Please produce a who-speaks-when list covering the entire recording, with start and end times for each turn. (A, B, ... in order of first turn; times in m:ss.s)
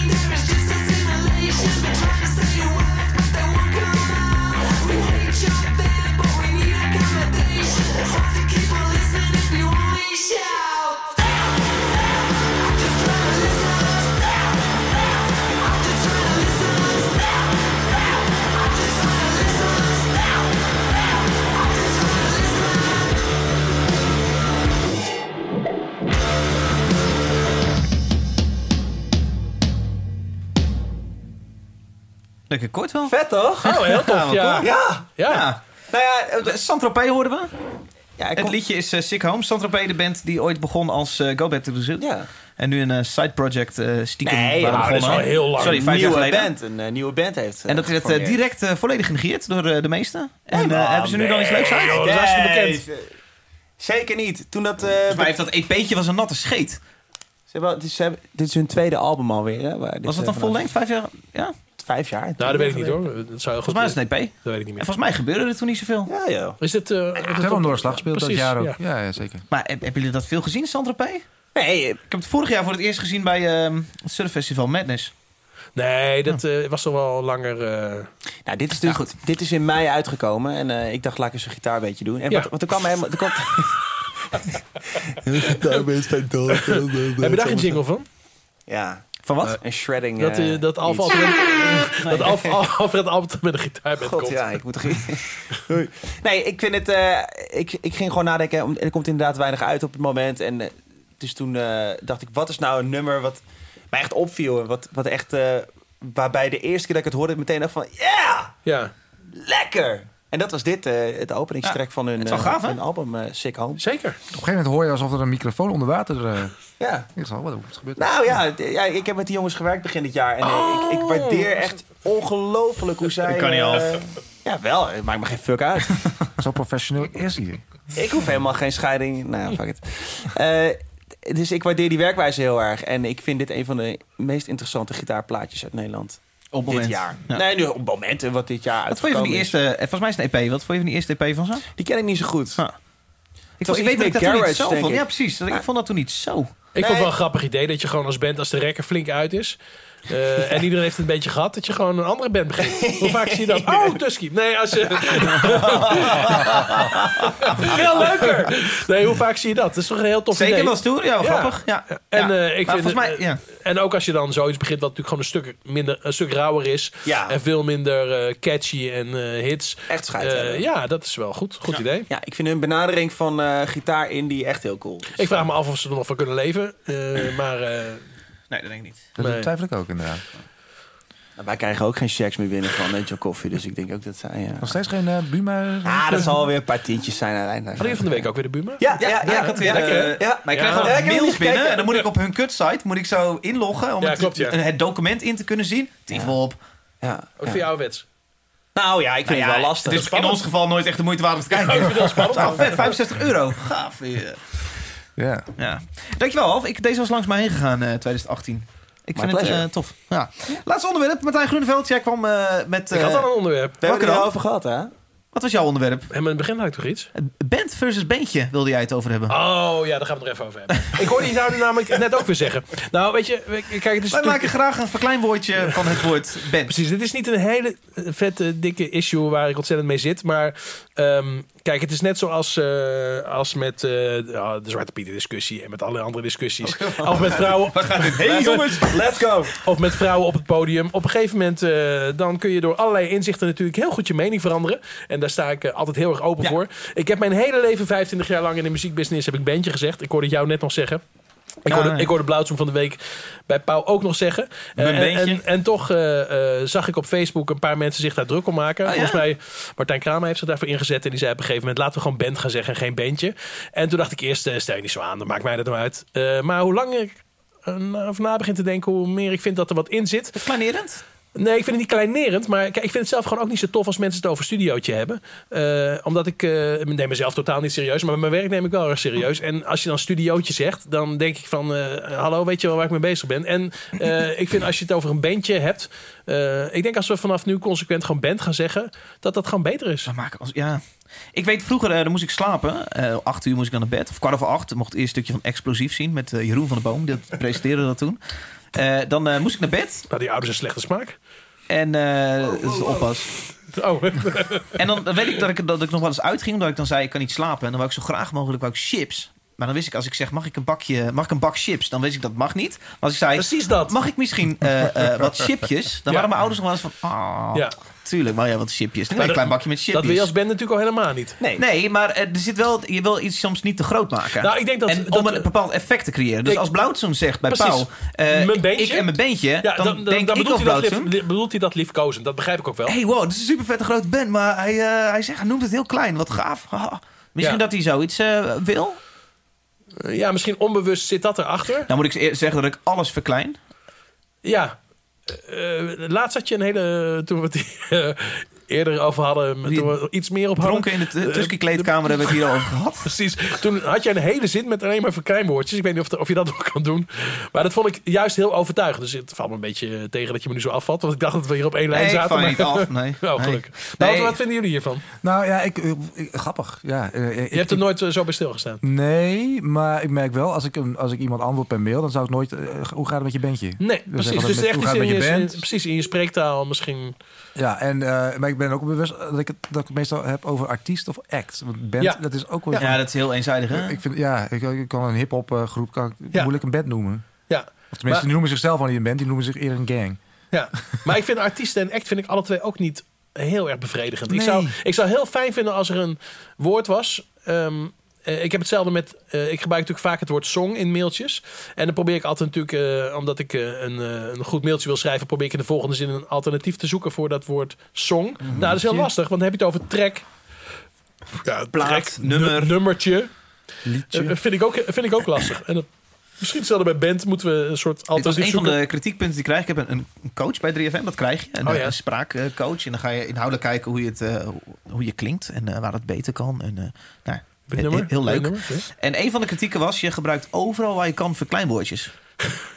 0:09.7-0:10.2 A
0:32.5-0:34.7 A
0:33.1-0:33.8 B
0:33.6-0:35.4 C
0:34.6-0:35.1 B
0:35.2-0:35.6 A
0:35.9-0:36.6 B
0:36.4-0:37.5 A
0:38.2-0:38.6 B
0:38.4-0:46.5 A
0:42.0-0:42.3 B
0:44.2-0:48.4 B
0:44.6-0:46.1 C
0:47.7-0:52.0 A
0:50.5-0:53.1 B
0:51.6-0:52.8 C
0:53.8-0:55.3 B
0:55.1-0:56.8 A
0:57.5-1:00.6 B
1:00.0-1:01.5 A
1:01.8-1:03.0 B
1:02.4-1:04.8 C
1:03.6-1:06.1 A
1:06.1-1:06.6 B
1:06.6-1:08.8 C
1:07.3-1:09.4 D
1:09.5-1:11.2 A
1:11.5-1:12.1 B
1:12.1-1:15.1 A
1:15.8-1:18.1 C
1:18.4-1:23.9 B
1:25.1-1:25.4 B
1:25.3-1:27.7 D
1:26.5-1:28.0 C
1:28.7-1:32.6 B
1:29.2-1:29.6 A
1:30.2-1:34.4 C
1:34.0-1:43.4 B
1:43.9-1:48.5 B
1:48.6-1:48.9 C
1:49.3-1:53.8 B
1:51.6-1:52.8 A
1:53.8-1:54.2 C
1:54.3-1:56.5 D
1:56.8-1:57.1 B
1:57.1-1:58.1 D
1:58.0-2:06.1 B
2:00.4-2:01.5 C
2:03.2-2:04.0 A
2:06.4-2:07.6 D
2:07.9-2:19.6 B
2:16.5-2:17.4 A
2:18.9-2:21.7 A
2:21.8-2:22.6 B
2:23.6-2:26.5 A
2:23.6-2:25.6 B
2:26.8-2:29.6 C
2:26.8-2:27.1 B
2:30.1-2:36.6 C
2:32.6-2:34.0 B
2:35.1-2:38.5 B
2:36.2-2:37.7 A
2:37.4-2:52.1 C
2:40.3-2:43.4 A
2:47.0-2:47.4 B
2:49.9-2:50.6 B
2:52.1-2:55.4 B
2:55.2-2:58.0 C
2:58.5-2:59.1 A
2:59.2-3:00.2 D
2:59.2-2:59.5 C
3:01.4-3:04.8 B
3:04.6-3:06.5 D
3:05.8-3:08.3 B
3:07.8-3:10.9 C
3:08.8-3:12.0 B
3:09.0-3:16.6 A
3:14.0-3:14.6 C
3:17.0-3:17.6 B
3:17.4-3:18.0 C
3:18.7-3:20.2 B
3:19.2-3:24.6 A
3:19.8-3:20.4 C
3:21.5-3:22.9 C
3:25.2-3:25.5 D
3:25.6-3:33.2 A
3:29.2-3:29.7 B
3:32.9-3:33.8 C
3:33.8-3:34.9 B
3:33.8-3:34.3 A
3:35.3-3:36.1 A
3:36.1-3:37.1 C
3:37.2-3:39.4 A
3:39.3-3:44.5 C
3:44.1-3:46.7 A
3:46.6-3:58.9 C
3:56.7-3:57.4 B
3:57.3-3:59.1 A
3:58.0-3:59.6 B
3:59.6-4:11.0 C
4:11.6-4:30.4 C
4:11.7-4:12.1 A
4:14.8-4:15.4 A
4:18.8-4:19.2 A
4:30.4-4:31.0 A
4:31.4-4:50.1 C
4:50.1-4:50.8 A
4:51.3-4:58.2 A
4:58.7-5:00.1 A
5:00.1-5:01.2 C
5:01.7-5:03.3 A
5:03.7-5:04.8 C
5:04.8-5:20.3 A
5:13.4-5:14.0 C
5:19.2-5:21.4 C
5:21.6-5:31.1 A
5:24.4-5:25.5 C
5:27.5-5:32.9 C
5:32.9-5:39.0 A
5:40.0-5:41.9 C
5:41.9-5:43.6 A
5:44.4-5:44.8 C
5:45.3-6:05.0 C
5:49.6-5:50.0 A
5:50.6-5:53.1 A
6:01.9-6:04.4 A
6:05.2-6:07.8 D
6:07.5-6:08.8 C
6:08.8-6:15.6 D
6:13.8-6:17.2 C
6:17.6-6:23.0 D
6:22.8-6:24.0 A
6:23.7-6:27.3 D
6:27.5-6:28.3 C
6:27.9-6:30.2 D
6:30.5-6:50.2 C
6:34.3-6:34.8 D
6:48.5-6:49.1 D
6:51.4-6:53.3 C
6:51.7-6:52.8 A
6:53.8-6:54.4 D
6:54.1-6:55.9 C
6:56.4-6:58.8 C
6:58.2-7:12.1 A
7:01.6-7:01.9 C
7:07.7-7:08.8 C